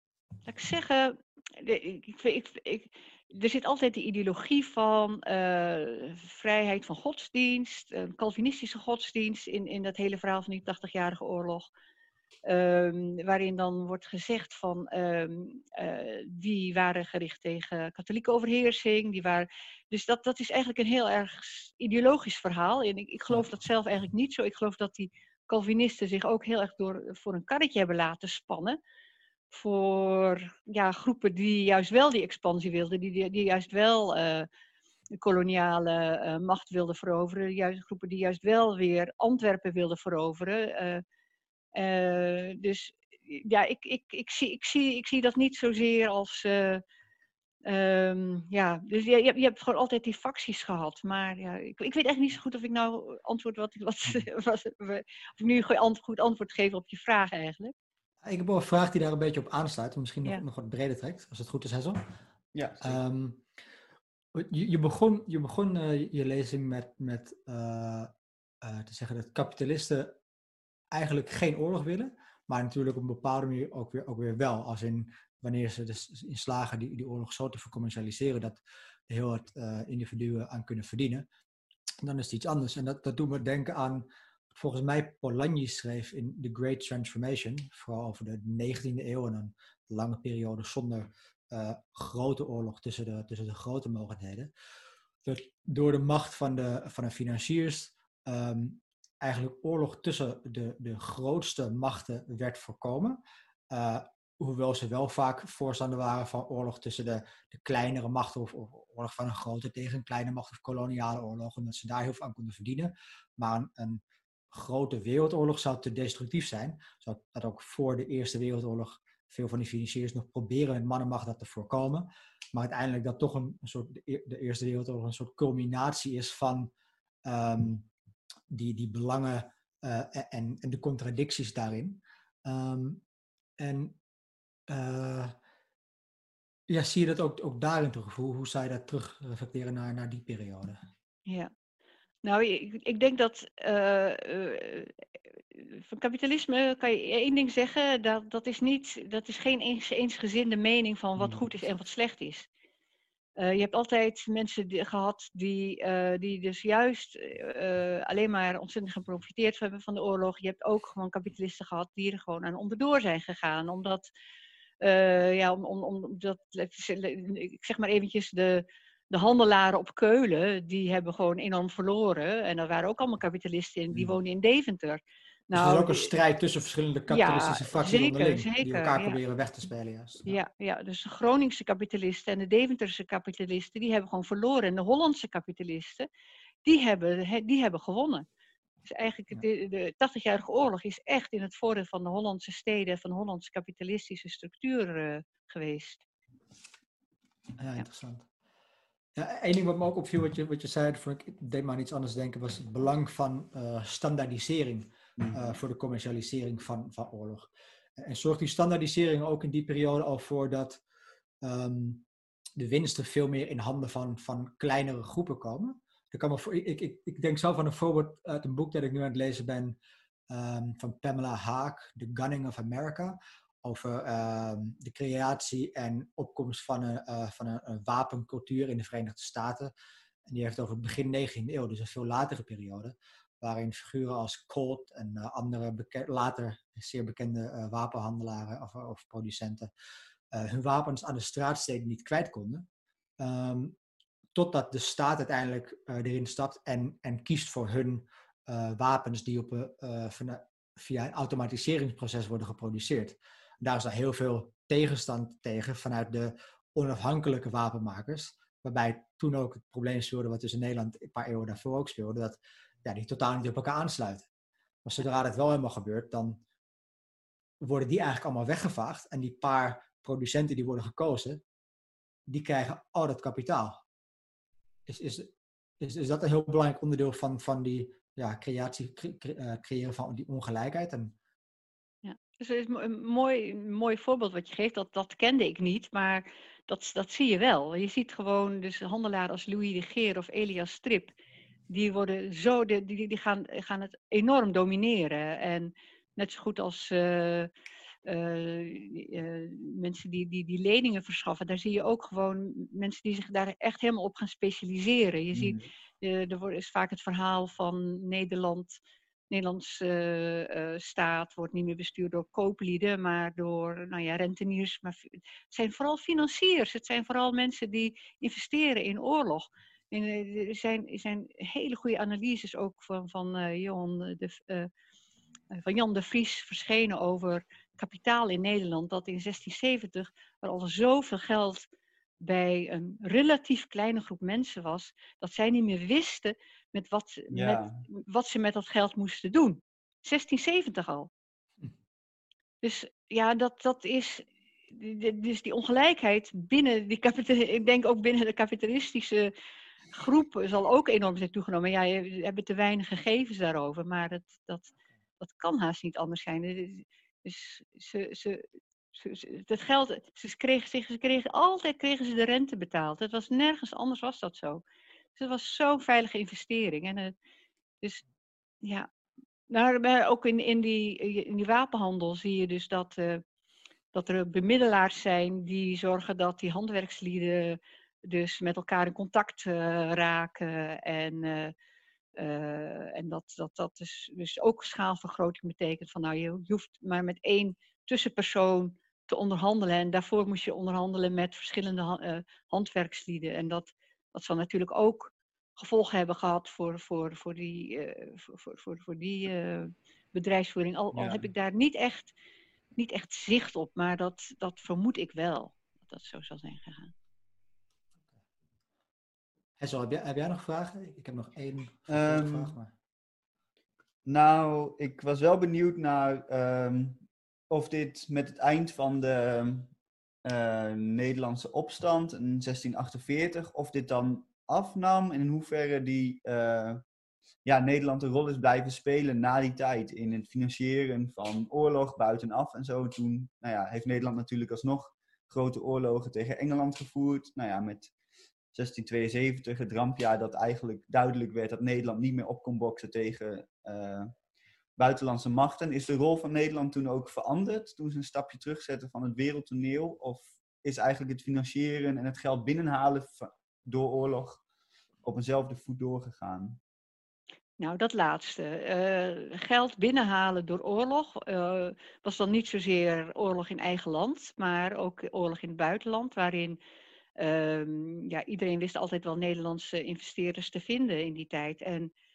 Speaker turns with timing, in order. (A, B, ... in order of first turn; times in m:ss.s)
0:00.4-0:11.7 A
0:12.4-0:28.8 A
0:29.5-0:34.5 A
0:35.2-0:41.0 A
0:41.7-0:46.8 A
0:47.6-0:57.7 A
0:58.2-1:02.0 B
1:02.5-1:03.0 C
1:02.8-1:03.4 B
1:04.3-1:10.2 B
1:10.9-1:21.2 B
1:22.0-1:34.5 B
1:35.2-2:06.7 B
2:07.2-2:07.9 B
2:08.5-2:13.0 B
2:13.6-2:14.0 B
2:14.7-2:15.4 B
2:16.7-2:20.8 B
2:22.2-2:25.0 A
2:25.5-2:32.5 A
2:33.4-2:44.1 A
2:44.8-2:56.1 A
2:55.5-3:00.4 B
2:57.1-2:59.2 A
3:00.2-3:06.1 A
3:06.6-3:08.2 A
3:08.8-3:16.0 A
3:17.6-3:18.3 B
3:19.2-3:30.8 B
3:31.4-3:32.0 B
3:32.6-3:39.8 B
3:40.3-3:49.7 B
3:50.2-3:59.7 B
4:00.3-4:02.7 B
4:03.2-4:03.8 B
4:04.3-4:24.3 B
4:24.8-4:26.4 B
4:27.6-4:31.4 B
4:32.3-4:33.8 B
4:34.9-4:41.2 B
4:42.0-4:51.1 A
4:51.7-4:57.5 A
4:58.0-5:08.8 A
5:05.4-5:05.7 C
5:09.3-5:24.7 A
5:25.5-5:31.7 A
5:32.2-5:41.1 A
5:37.3-5:37.8 C
5:42.6-5:49.3 A
5:49.9-6:04.6 A
6:05.2-6:07.1 A
6:08.6-6:08.9 A
6:09.5-6:13.2 A
6:13.9-6:21.5 A
6:22.2-6:42.1 A
6:40.9-6:41.3 C
6:42.8-6:46.9 A
6:49.6-6:52.7 B
6:51.9-6:52.5 C
6:54.0-6:59.7 C
7:00.2-7:06.8 C
7:07.4-7:17.9 C
7:18.5-7:24.1 C
7:24.8-7:34.4 C
7:35.0-7:36.6 C
7:37.6-7:46.6 A
7:47.2-7:51.9 A